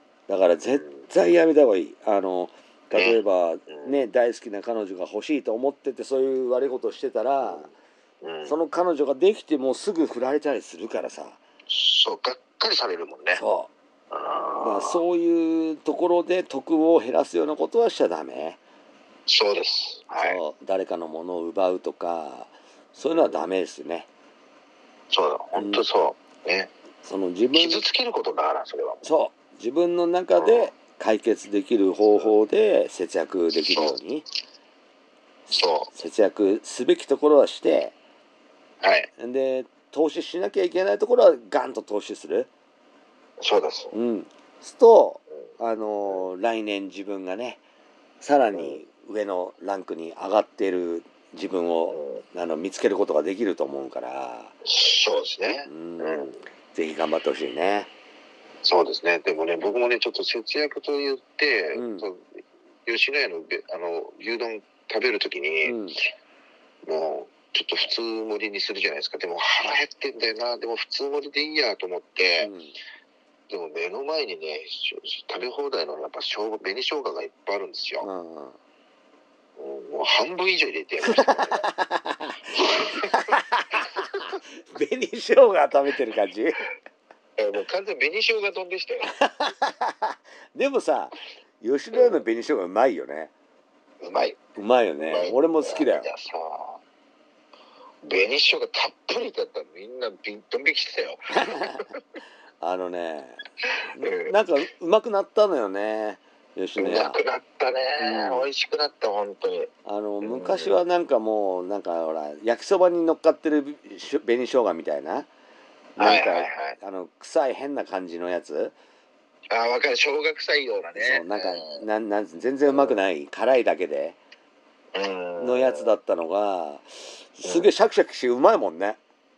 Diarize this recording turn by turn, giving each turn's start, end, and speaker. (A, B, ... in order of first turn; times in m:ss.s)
0:00.3-0:07.7 A
0:07.4-0:07.7 B
0:08.2-0:08.6 B
0:08.4-0:11.4 A
0:11.7-0:13.4 B
0:13.4-0:13.7 A
0:14.1-0:15.0 B
0:14.6-0:18.6 A
0:19.3-0:20.4 B
0:20.1-0:24.1 A
0:23.1-0:23.4 B
0:25.1-0:26.7 B
0:25.5-0:25.8 A
0:27.0-0:27.8 A
0:27.5-0:29.1 B
0:29.0-0:34.2 A
0:30.4-0:30.7 B
0:33.7-0:34.0 B
0:35.5-0:35.9 B
0:35.8-0:37.9 A
0:38.8-0:39.1 B
0:39.2-0:42.5 A
0:43.4-0:43.9 B
0:43.9-0:47.6 A
0:48.2-0:54.5 A
0:51.9-0:52.2 B
0:54.6-0:56.3 B
0:55.6-0:57.9 A
0:58.6-1:05.8 B
1:01.7-1:02.1 A
1:05.6-1:06.0 A
1:06.8-1:12.5 B
1:12.4-1:12.7 A
1:13.5-1:18.1 B
1:18.0-1:18.6 A
1:19.6-1:21.6 B
1:21.0-1:24.0 A
1:22.7-1:23.3 B
1:24.6-1:26.6 A
1:27.4-1:29.1 B
1:29.0-1:33.3 A
1:31.9-1:32.2 B
1:34.0-1:34.4 B
1:34.6-1:36.1 A
1:35.0-1:36.8 B
1:38.0-1:41.9 B
1:41.3-1:41.8 A
1:42.6-1:47.2 A
1:43.7-1:44.4 B
1:46.8-1:49.7 B
1:48.0-1:48.5 A
1:49.8-1:55.3 A
1:50.2-1:50.7 B
1:56.0-1:56.7 B
1:56.0-1:58.7 A
1:59.5-2:01.8 B
2:00.9-2:04.2 A
2:02.7-2:02.9 B
2:04.9-2:05.9 B
2:05.4-2:09.0 A
2:07.4-2:07.7 B